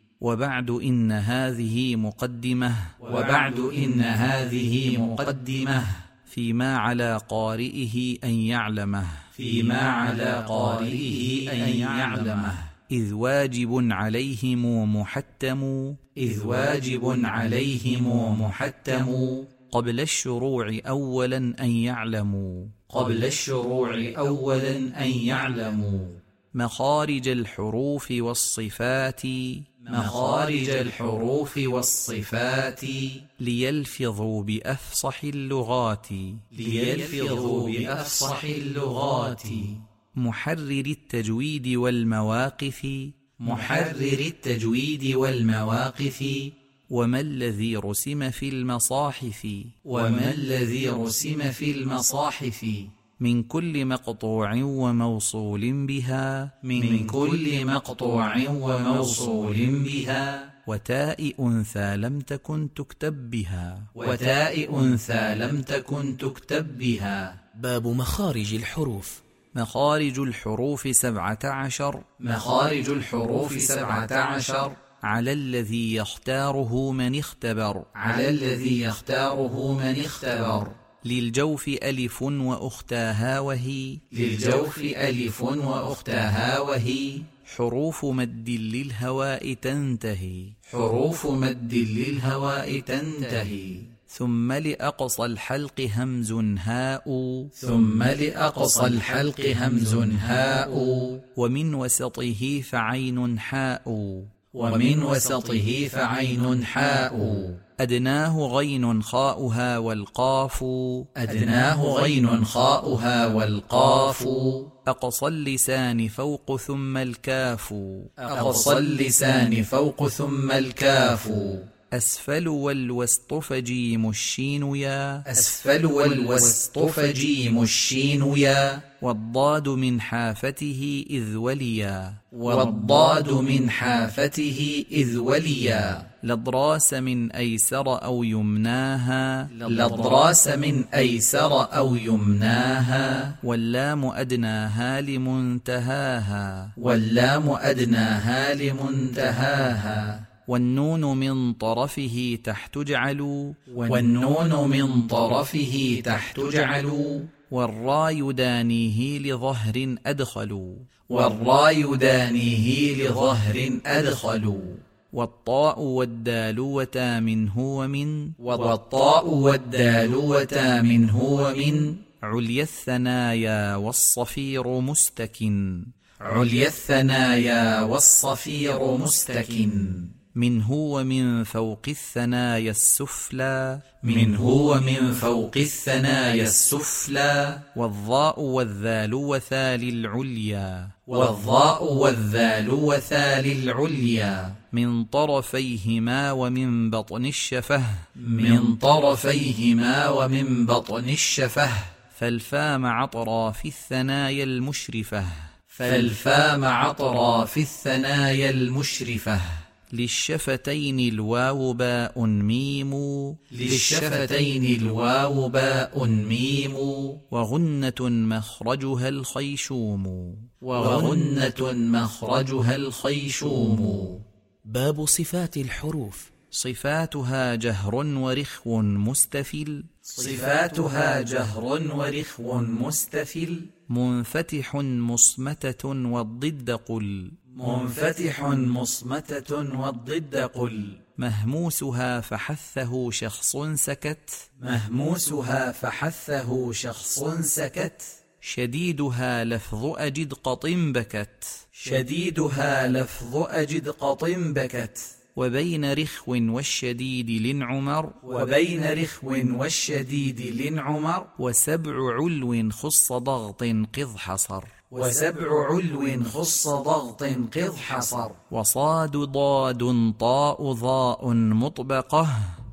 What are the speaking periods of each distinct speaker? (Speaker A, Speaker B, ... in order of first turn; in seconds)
Speaker A: 0.2-3.1, 6.2-9.4, 10.8-16.0, 18.1-18.8, 19.6-22.9, 26.6-30.1, 33.4-38.1, 40.1-43.1, 46.9-49.8, 53.2-57.1, 60.6-64.0, 69.5-72.1, 75.0-77.9, 81.0-84.0, 87.4-90.7, 94.1-97.5, 101.3-104.3, 107.8-111.1, 114.8-118.1, 121.9-125.2, 129.0-133.1, 136.2-140.2, 143.4-146.7, 150.5-153.7, 157.5-160.8, 165.1-168.4, 172.2-175.9, 180.3-183.8, 187.7-191.0, 194.7-198.1, 202.1-205.5, 209.9-214.1, 217.3-221.2, 226.5-230.0, 233.9-237.5, 241.2-244.5, 248.4-251.7, 255.3-258.2, 261.4-264.7, 268.5-272.5
Speaker B: 3.0-6.0, 9.3-12.6, 16.2-18.1, 18.7-19.4, 22.9-26.1, 29.9-33.2, 36.5-39.8, 43.4-46.5, 49.8-52.9, 56.7-60.5, 64.0-67.3, 72.2-74.8, 78.0-80.7, 84.1-87.2, 90.7-93.9, 97.5-101.2, 104.5-107.6, 111.2-114.7, 118.2-121.7, 125.3-128.8, 132.3-136.1, 139.5-143.3, 146.8-150.2, 153.8-157.3, 161.1-164.8, 168.4-172.0, 176.2-180.1, 184.0-187.6, 191.1-194.6, 198.2-201.9, 205.7-209.6, 213.5-217.2, 220.7-224.2, 230.1-233.7, 237.6-241.0, 244.6-248.0, 251.7-255.0, 258.2-261.3, 264.9-268.4
Speaker C: 67.5-69.2, 224.7-226.3